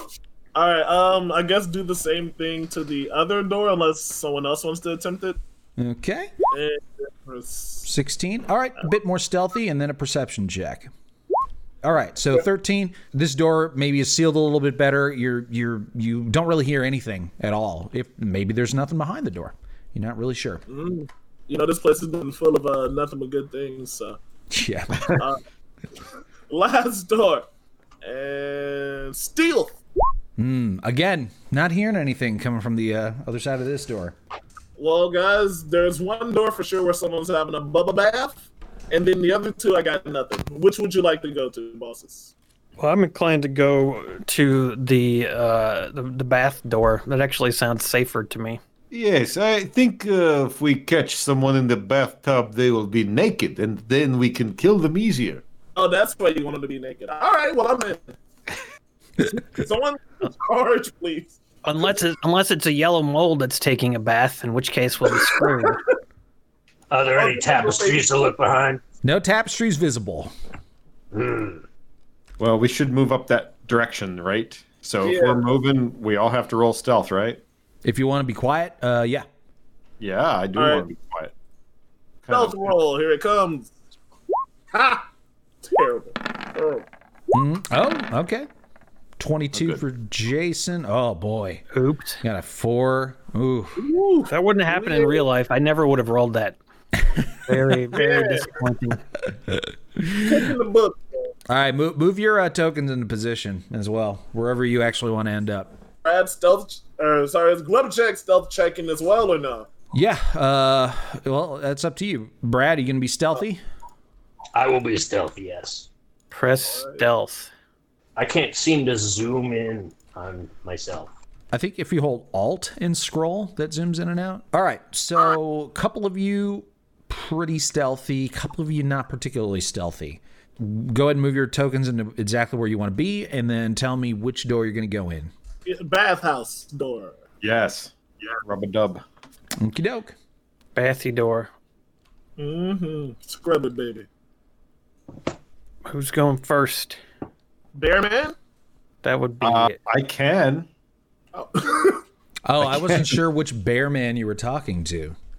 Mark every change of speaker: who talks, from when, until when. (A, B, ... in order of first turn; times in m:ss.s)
0:00.6-0:05.4 A
0:05.8-0:06.3 B
0:06.5-0:07.9 A
0:07.8-0:10.9 B
0:11.8-0:20.6 B
0:20.7-0:24.2 A
0:24.5-0:25.1 B
0:26.5-0:27.5 A
0:28.0-0:29.7 A
0:30.4-0:34.2 B
0:34.8-0:42.3 A
0:42.8-0:48.6 C
0:48.9-0:55.4 D
0:55.8-0:58.1 A
0:59.4-1:01.3 A
1:01.6-1:05.8 C
1:05.1-1:05.7 A
1:06.9-1:08.8 E
1:07.1-1:08.1 A
1:09.0-1:10.3 B
1:11.1-1:11.6 E
1:12.4-1:17.4 D
1:15.0-1:15.4 A
1:17.8-1:19.3 B
1:20.0-1:21.3 D
1:20.6-1:20.9 A
1:22.2-1:22.7 D
1:22.3-1:23.7 A
1:24.7-1:25.1 A
1:25.6-1:26.9 A
1:27.3-1:28.5 B
1:29.2-1:31.6 B
1:29.6-1:29.8 D
1:31.7-1:32.2 C
1:32.2-1:33.8 B
1:33.8-1:35.3 A
1:34.3-1:36.6 C
1:37.4-1:39.0 C
1:37.9-1:38.5 A
1:40.2-1:41.3 A
1:41.5-1:45.7 B
1:46.0-1:49.7 A
1:49.9-1:53.6 B
1:54.5-1:55.9 E
1:56.3-1:57.5 C
1:56.7-1:57.0 A
1:58.2-2:01.1 E
2:01.5-2:15.3 B
2:15.7-2:17.2 A
2:17.4-2:19.0 D
2:19.6-2:20.2 B
2:20.8-2:21.5 C
2:22.4-2:24.1 A
2:25.9-2:27.0 C
2:27.8-2:28.4 A
2:29.0-2:29.8 C
2:29.4-2:30.7 D
2:31.3-2:32.0 A
2:32.4-2:35.2 B